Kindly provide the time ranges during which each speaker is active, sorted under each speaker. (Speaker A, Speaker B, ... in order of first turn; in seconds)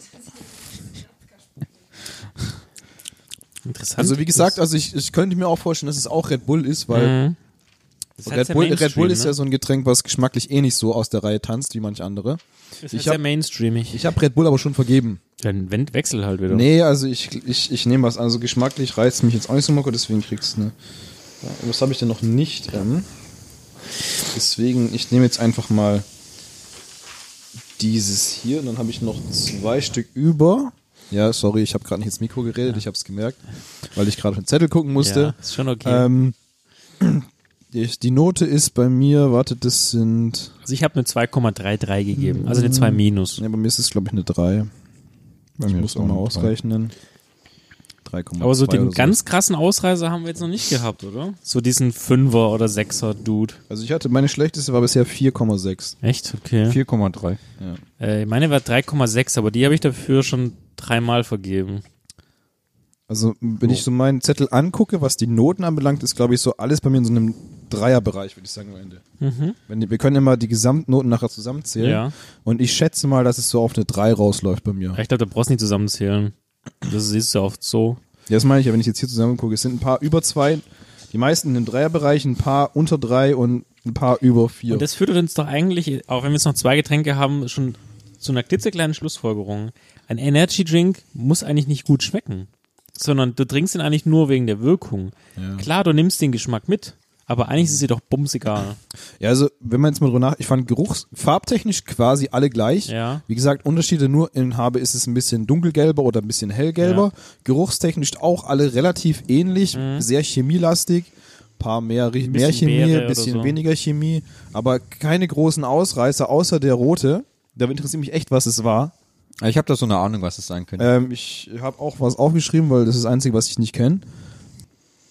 Speaker A: 3.7-4.6, 6.9-7.4, 8.2-9.4, 12.8-14.0, 15.4-16.7, 35.0-36.1, 40.6-43.4, 48.4-53.6, 56.0-56.8, 58.0-61.8, 69.2-69.6, 71.8-72.1, 75.0-76.3, 76.8-78.0, 84.7-98.8, 102.9-103.2, 106.8-107.1, 109.7-110.1, 112.2-113.6
Speaker B: 4.0-7.2, 8.2-13.2, 13.9-15.2, 16.5-20.7, 21.4-23.1, 24.3-26.1, 27.8-33.4, 34.0-36.4, 37.0-40.5, 42.1-44.7, 45.6-46.9, 48.1-49.2, 53.7-56.0, 63.1-69.0, 69.7-75.0, 78.3-84.9, 95.4-95.7, 99.2-118.9, 120.8-124.0
Speaker C: 45.6-46.5, 56.7-57.4, 119.4-120.9